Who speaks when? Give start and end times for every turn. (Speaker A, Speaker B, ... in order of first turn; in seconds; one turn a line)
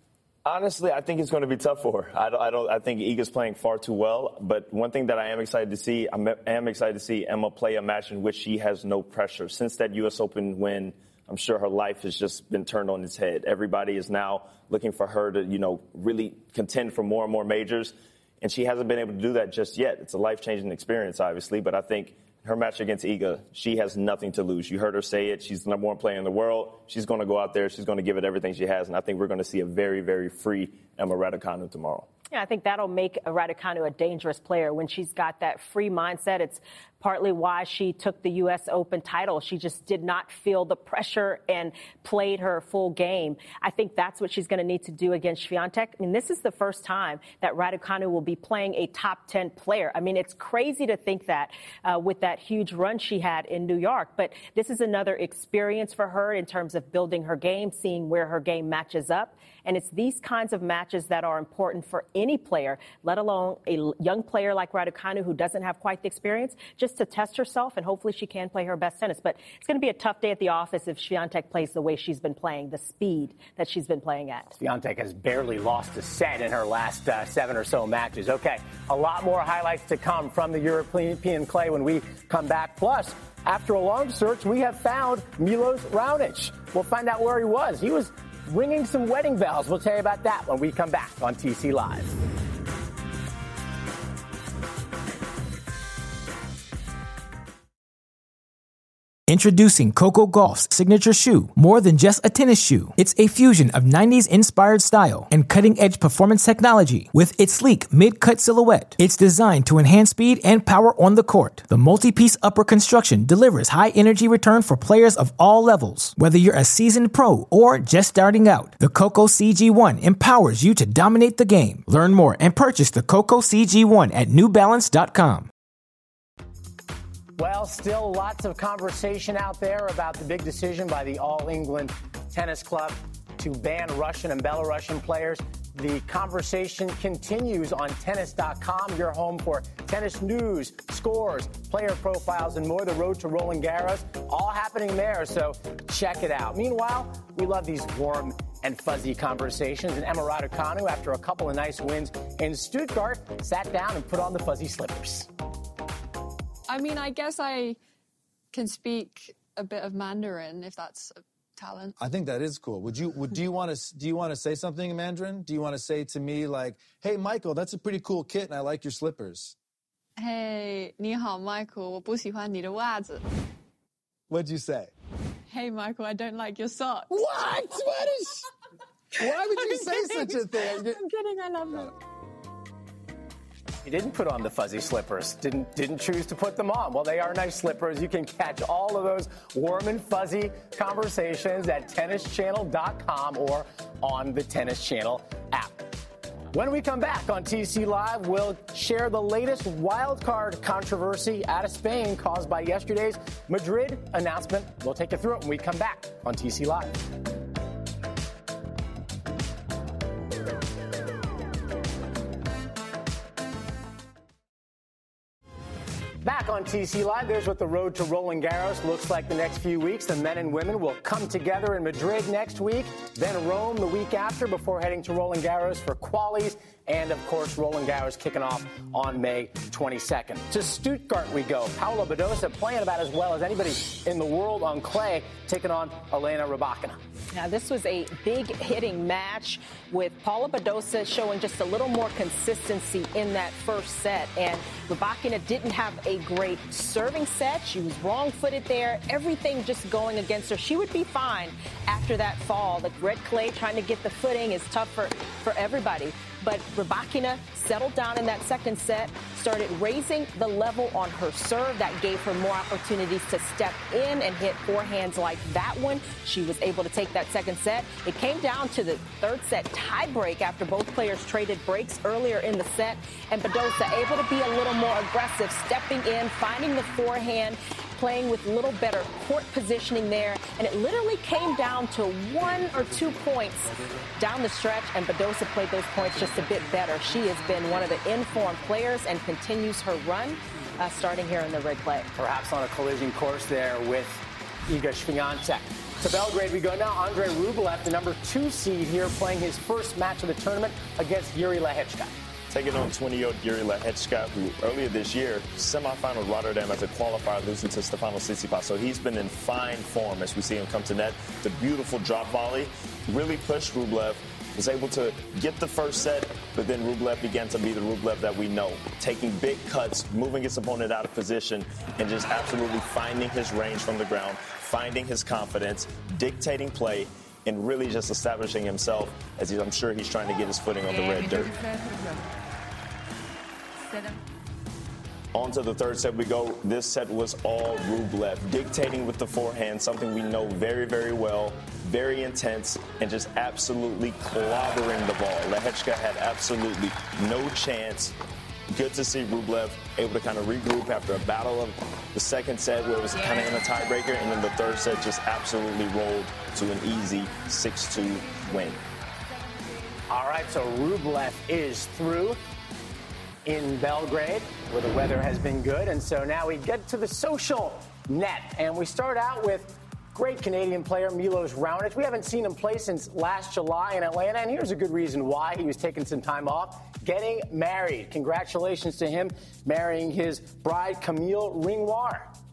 Speaker A: 0.5-32.1
Speaker B: 32.3-74.5
Speaker C: 74.6-92.1
Speaker D: 99.3-125.5
Speaker C: 127.4-155.3
Speaker E: 156.7-157.8
Speaker E: 158.5-162.0
Speaker F: 162.0-169.5
Speaker E: 170.2-173.2
Speaker F: 174.3-174.9
Speaker E: 175.5-177.9
Speaker F: 177.1-178.4
Speaker F: 179.2-181.0
Speaker E: 179.6-181.9
Speaker C: 183.8-195.9
Speaker C: 196.5-207.0
Speaker C: 216.2-237.0
Speaker B: 237.3-292.1
Speaker C: 292.1-302.1
Speaker A: 302.5-331.6
Speaker A: 335.3-348.2
Speaker A: 348.7-358.8
Speaker C: 360.1-362.4
Speaker C: 363.4-382.3